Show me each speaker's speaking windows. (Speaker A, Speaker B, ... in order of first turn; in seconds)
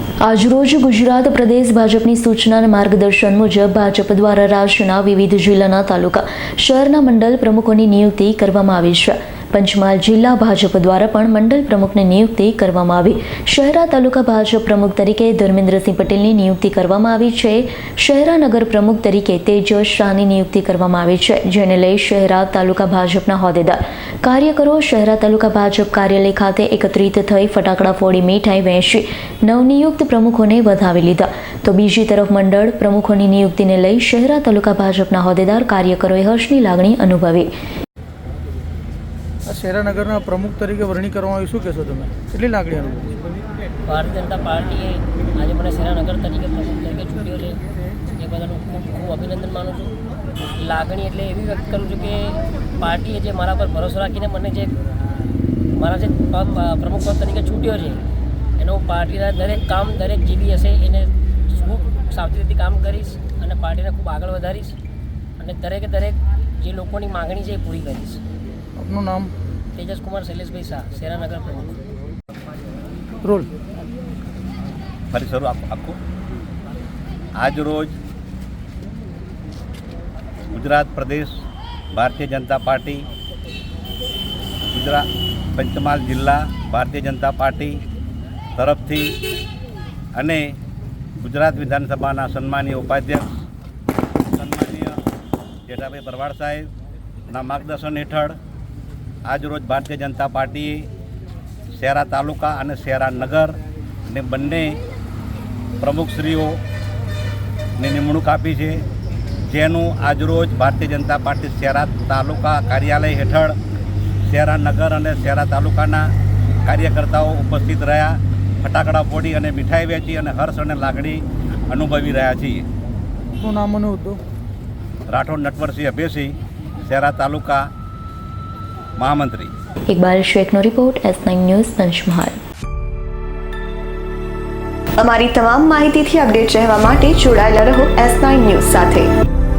Speaker A: 0.2-37.5, 129.9-132.4
Speaker B: 39.5-43.2, 68.8-69.3, 73.2-73.5, 123.4-124.2
Speaker C: 43.9-47.6, 48.1-49.9, 50.5-54.7, 55.7-58.0, 58.6-64.8, 65.4-68.2, 69.7-71.8
Speaker D: 75.1-76.0, 77.4-78.0, 80.5-81.4, 81.9-83.1, 84.7-87.8, 88.6-89.2, 90.2-90.6, 91.2-93.4, 94.3-95.0, 95.7-96.7, 97.3-98.4, 99.3-100.9, 101.8-104.8, 105.8-106.6, 107.8-108.8, 109.5-113.5, 114.2-116.1, 116.7-122.7, 125.1-127.7, 129.0-129.5
Speaker E: 135.0-139.1